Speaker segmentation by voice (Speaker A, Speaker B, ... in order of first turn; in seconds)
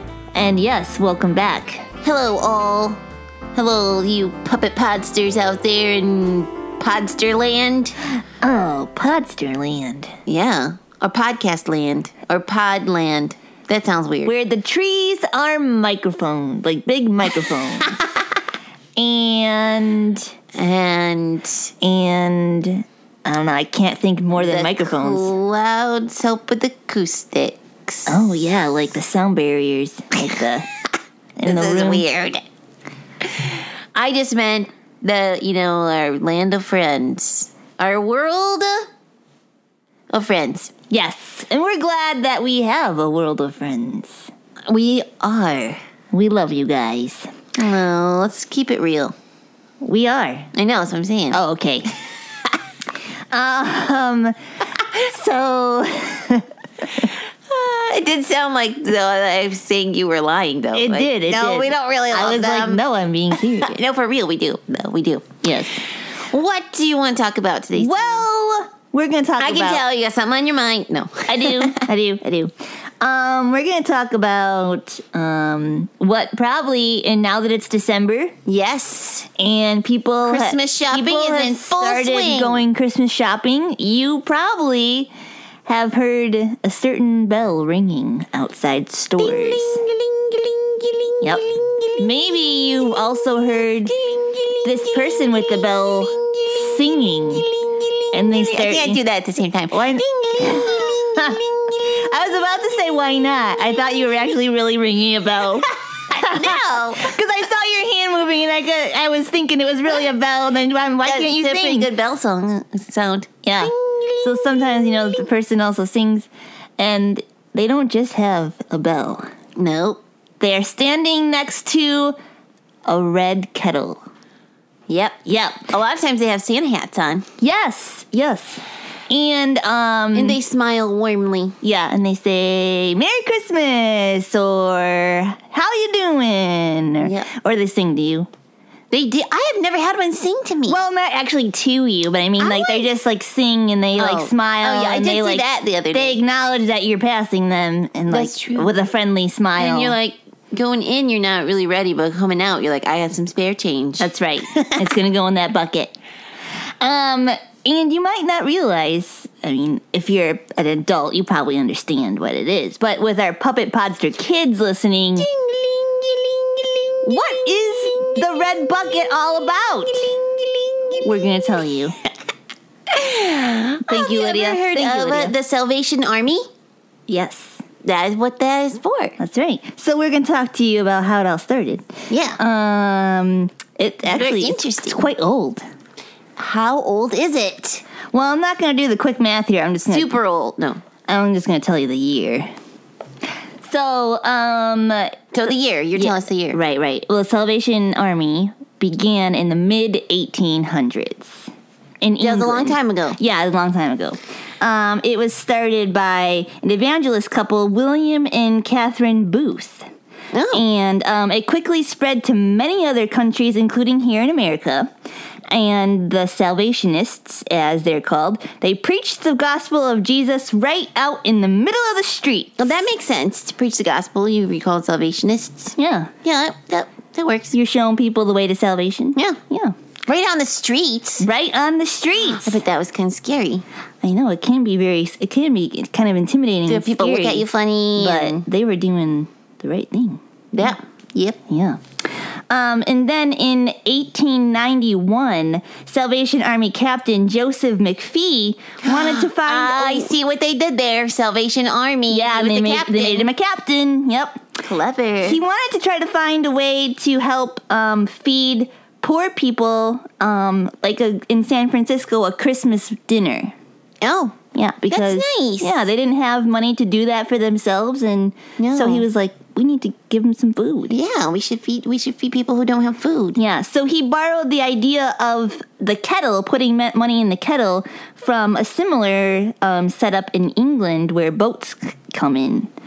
Speaker A: 0.3-1.9, 8.4-10.1, 14.2-18.0, 19.0-20.3, 21.8-25.3, 28.1-30.7, 31.4-32.0, 40.9-44.3, 46.1-47.3, 49.8-50.5, 51.3-51.9, 53.3-54.4, 54.9-56.5, 60.7-63.7, 65.4-65.8, 67.8-69.8, 71.3-78.3, 79.4-85.1, 85.7-89.8, 92.0-94.0, 94.6-97.5, 98.1-99.0, 99.7-111.9, 113.5-119.2, 120.4-122.2, 122.9-124.0, 125.3-125.7, 127.4-130.4, 131.6-138.3, 140.7-149.9, 154.0-155.9, 156.8-165.3, 167.1-170.1, 171.0-172.0, 173.9-175.3, 177.1-177.6, 179.2-181.8, 182.4-185.6, 188.1-190.2, 191.1-192.5, 193.6-195.3, 196.0-201.5, 202.0-209.8, 210.5-214.9, 215.5-222.9, 225.8-226.1, 227.5-229.8, 231.2-232.6, 234.0-240.7, 241.5-241.8, 242.5-250.1, 252.1-254.4, 255.2-263.6, 264.6-270.9, 273.4-282.7
Speaker B: 2.0-3.0, 3.5-8.0, 10.3-14.3, 20.6-21.7, 24.4-28.2, 31.4-32.4, 33.2-38.9, 40.1-40.7, 44.7-45.8, 47.6-49.1, 50.5-51.4, 57.0-62.8, 63.4-65.3, 65.9-68.2, 69.4-71.9, 78.5-79.3, 80.2-82.6, 89.2-92.1, 94.0-102.0, 106.1-107.1, 111.0-115.2, 119.6-120.0, 124.9-127.3, 130.1-131.6, 137.0-137.3, 138.9-140.8, 142.4-142.9, 144.0-146.2, 148.1-148.8, 149.6-154.9, 165.2-168.8, 169.9-171.4, 172.9-176.4, 177.8-179.2, 182.1-182.4, 184.1-185.1, 186.4-187.8, 189.9-190.8, 195.3-196.6, 202.2-203.2, 210.3-210.7, 222.6-227.6, 230.1-231.3, 232.2-233.6, 236.7-238.4, 240.5-241.4, 248.8-253.3, 254.6-255.4, 264.0-264.4, 264.9-265.9, 268.6-269.1, 270.9-273.4